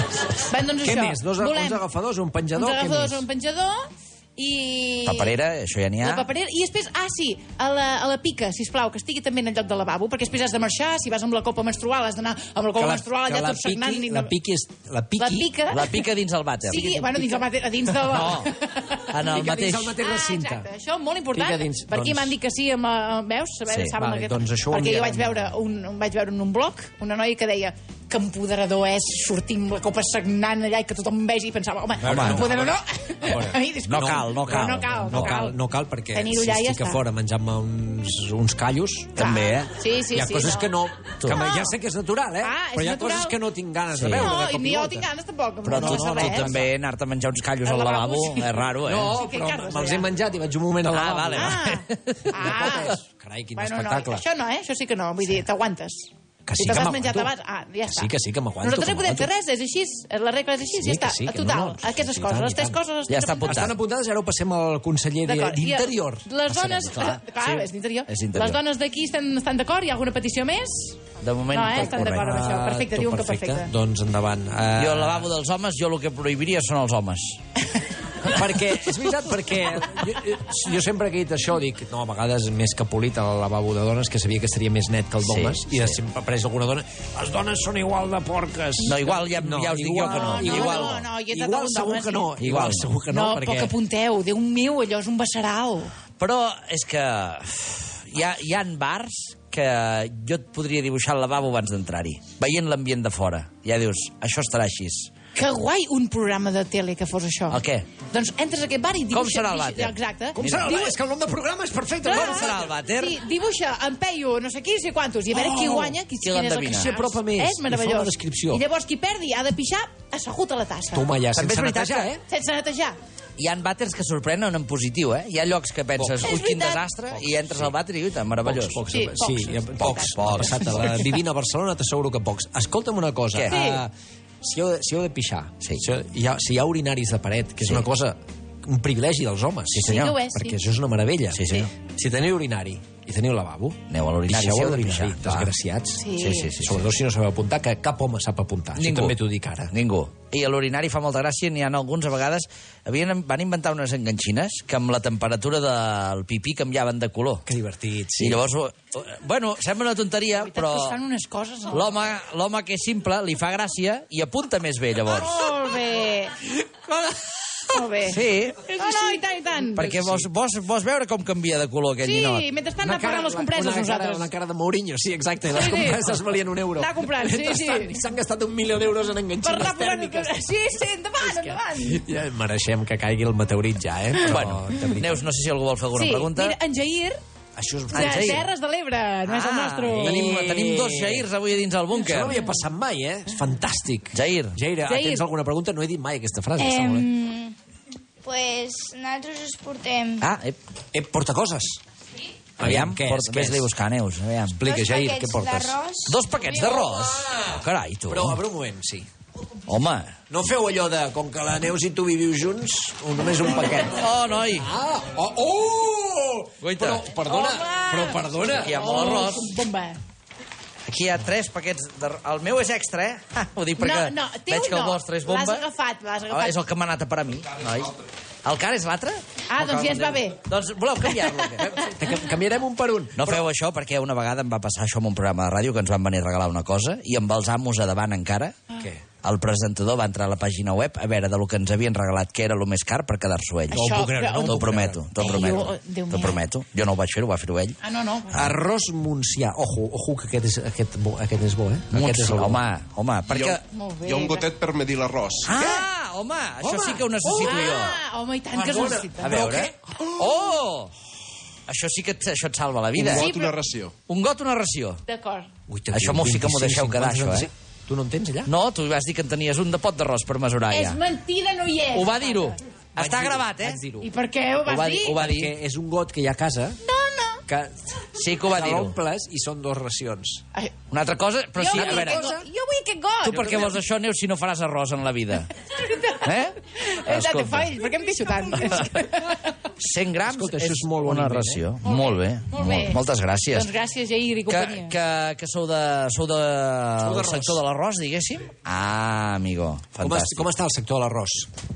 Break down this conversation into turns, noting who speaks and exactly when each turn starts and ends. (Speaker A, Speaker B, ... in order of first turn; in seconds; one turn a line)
Speaker A: 0.5-1.8
Speaker B: 0.8-3.2
Speaker A: 2.5-5.3
Speaker C: 5.0-6.2
Speaker A: 6.0-14.3
Speaker B: 12.8-15.5
Speaker A: 15.2-15.9
Speaker C: 15.7-16.9
Speaker A: 16.6-19.0
Speaker B: 16.7-18.3
Speaker C: 18.1-18.5
Speaker C: 19.1-19.9
Speaker B: 19.2-20.7
Speaker A: 20.0-35.6
Speaker B: 21.3-22.4
Speaker C: 23.7-23.9
Speaker B: 23.9-25.5
Speaker B: 32.0-39.2
Speaker C: 32.0-32.4
Speaker C: 33.9-35.3
Speaker A: 36.1-37.0
Speaker C: 39.2-39.7
Speaker A: 39.2-40.7
Speaker B: 40.1-45.1
Speaker A: 41.3-41.7
Speaker A: 42.4-43.3
Speaker C: 44.0-44.3
Speaker A: 44.2-46.5
Speaker C: 45.6-49.1
Speaker B: 45.6-46.7
Speaker A: 47.6-50.1
Speaker B: 48.8-51.7
Speaker C: 50.9-52.2
Speaker A: 51.4-53.0
Speaker B: 52.3-54.2
Speaker A: 53.6-58.1
Speaker B: 56.5-57.3
Speaker B: 57.9-59.3
Speaker A: 58.6-63.5
Speaker B: 60.7-62.8
Speaker C: 63.1-63.7
Speaker B: 63.4-66.3
Speaker A: 65.2-71.0
Speaker C: 66.5-68.6
Speaker C: 71.2-72.3
Speaker A: 71.5-73.7
Speaker B: 71.7-75.3
Speaker C: 74.8-77.4
Speaker B: 78.3-93.8
Speaker C: 85.2-86.0
Speaker C: 88.8-91.0
Speaker A: 90.1-92.3
Speaker C: 92.4-92.9
Speaker A: 93.1-95.9
Speaker C: 96.2-105.1
Speaker A: 105.3-107.6
Speaker C: 107.5-107.9
Speaker A: 108.1-110.9
Speaker C: 109.1-110.8
Speaker B: 110.3-112.7
Speaker A: 112.0-121.1
Speaker C: 112.1-113.2
Speaker B: 115.3-116.0
Speaker C: 116.2-116.9
Speaker B: 116.6-118.6
Speaker B: 120.9-122.2
Speaker C: 121.3-122.1
Speaker A: 122.3-123.0
Speaker C: 123.4-128.8
Speaker B: 126.0-126.5
Speaker A: 126.3-126.8
Speaker B: 127.1-127.7
Speaker B: 128.4-149.7
Speaker A: 128.9-129.5
Speaker C: 129.8-130.9
Speaker A: 133.5-133.8
Speaker C: 139.7-140.2
Speaker A: 139.8-140.6
Speaker C: 141.3-141.7
Speaker C: 143.9-145.5
Speaker A: 146.0-146.5
Speaker C: 146.2-146.8
Speaker C: 148.8-149.2
Speaker C: 149.7-157.4
Speaker B: 157.4-158.4
Speaker C: 158.2-161.0
Speaker A: 160.4-162.0
Speaker C: 161.7-165.4
Speaker A: 165.0-166.3
Speaker A: 167.7-170.0
Speaker C: 168.0-168.9
Speaker C: 169.7-172.4
Speaker B: 169.9-170.2
Speaker A: 172.0-174.3
Speaker B: 172.8-180.5
Speaker A: 175.5-176.2
Speaker A: 176.8-177.9
Speaker A: 179.4-182.0
Speaker B: 181.2-185.2
Speaker C: 184.2-186.6
Speaker A: 185.9-187.2
Speaker B: 187.6-188.4
Speaker C: 187.9-188.4
Speaker A: 187.9-190.1
Speaker C: 189.2-192.4
Speaker B: 189.9-191.3
Speaker B: 191.9-197.1
Speaker C: 194.1-194.6
Speaker A: 194.9-195.2
Speaker D: 196.6-197.5
Speaker D: 198.2-200.2
Speaker C: 200.2-200.6
Speaker B: 200.9-201.8
Speaker B: 202.6-203.7
Speaker C: 202.6-204.6
Speaker B: 204.6-205.8
Speaker D: 204.6-206.2
Speaker C: 206.1-208.4
Speaker B: 206.5-207.5
Speaker B: 208.1-209.1
Speaker C: 209.7-210.2
Speaker B: 210.3-214.0
Speaker C: 213.9-214.7
Speaker B: 214.5-219.0
Speaker C: 216.6-217.0
Speaker A: 217.2-220.0
Speaker C: 218.6-219.5
Speaker C: 220.9-225.7
Speaker A: 223.8-226.6
Speaker C: 226.3-227.9
Speaker C: 228.4-231.8
Speaker A: 229.5-230.4
Speaker A: 231.1-231.5
Speaker B: 231.6-233.4
Speaker C: 233.2-238.6
Speaker B: 238.8-239.0
Speaker C: 239.2-247.8
Speaker A: 243.7-244.6
Speaker B: 243.7-245.3
Speaker A: 245.2-246.4
Speaker A: 247.8-248.4
Speaker B: 248.3-252.6
Speaker C: 251.9-253.6
Speaker E: 253.3-255.6
Speaker A: 253.6-254.4
Speaker C: 255.4-258.0
Speaker B: 256.6-257.8
Speaker A: 257.3-259.4
Speaker B: 258.5-259.8
Speaker C: 259.2-260.9
Speaker C: 261.7-263.3
Speaker E: 263.0-263.9
Speaker A: 263.2-263.5
Speaker C: 264.1-265.0
Speaker A: 265.1-265.5
Speaker B: 265.7-268.5
Speaker C: 265.9-267.5
Speaker C: 268.5-271.0
Speaker A: 270.7-272.6
Speaker C: 271.9-273.8
Speaker B: 273.0-274.1
Speaker A: 274.0-275.2
Speaker C: 274.7-275.5
Speaker B: 275.0-276.8
Speaker A: 276.8-277.4
Speaker B: 277.5-277.8
Speaker C: 278.2-278.9
Speaker B: 278.4-280.4
Speaker C: 280.9-282.3
Speaker B: 281.6-282.4
Speaker A: 281.6-283.4
Speaker C: 283.2-285.5
Speaker B: 283.3-283.7
Speaker A: 285.7-289.4
Speaker C: 286.2-287.8
Speaker C: 289.8-293.7
Speaker B: 290.2-291.7
Speaker A: 291.8-293.0
Speaker A: 293.5-294.9
Speaker C: 294.5-300.4
Speaker B: 297.0-297.6
Speaker B: 300.0-301.5